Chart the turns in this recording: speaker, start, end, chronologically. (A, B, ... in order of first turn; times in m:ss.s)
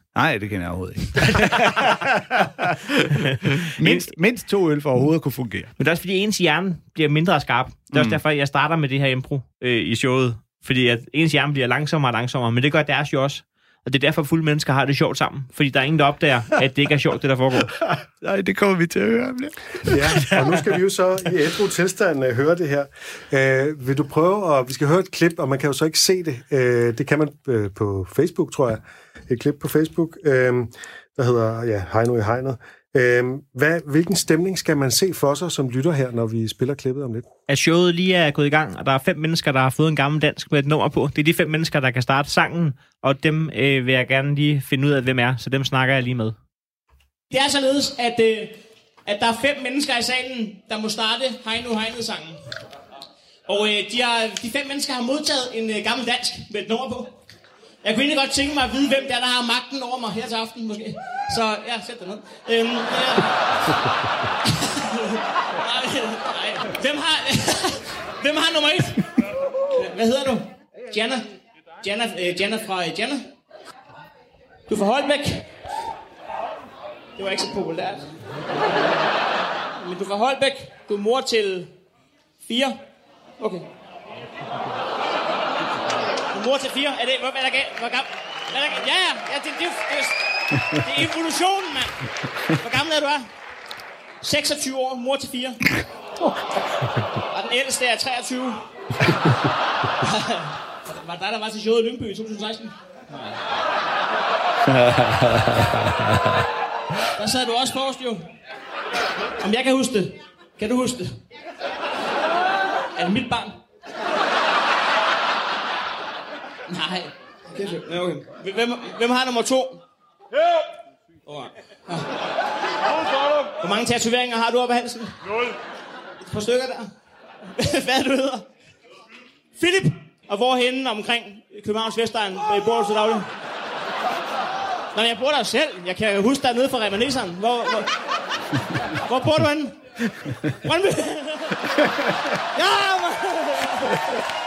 0:00.2-0:05.7 A
0:03.8-0:04.1 B
0:05.8-0:17.7 B
0:07.9-0:08.2 A
0:17.8-0:20.6 A
0:19.9-0:37.3 C
0:37.5-0:46.4 B
0:47.3-0:52.4 D
0:53.5-0:57.2 D
0:57.8-1:03.8 D
1:04.6-1:11.3 D
1:11.8-1:13.3 D
1:14.7-1:15.5 D
1:17.2-1:18.2 D
1:19.8-1:21.7 D
1:22.5-1:22.8 D
1:23.4-1:23.7 D
1:26.3-1:32.1 D
1:32.6-1:33.3 D
1:34.2-1:35.6 D
1:37.3-1:38.6 D
1:40.0-1:42.8 D
1:45.0-1:45.4 A
1:47.2-1:48.3 D
1:49.4-1:51.2 D
1:53.0-1:53.6 D
1:56.7-1:59.8 D
2:01.3-2:02.1 D
2:03.2-2:05.2 D
2:06.2-2:06.9 D
2:07.6-2:08.5 D
2:09.6-2:13.3 D
2:14.9-2:17.9 D
2:19.0-2:19.8 D
2:20.6-2:21.6 D
2:22.6-2:24.0 D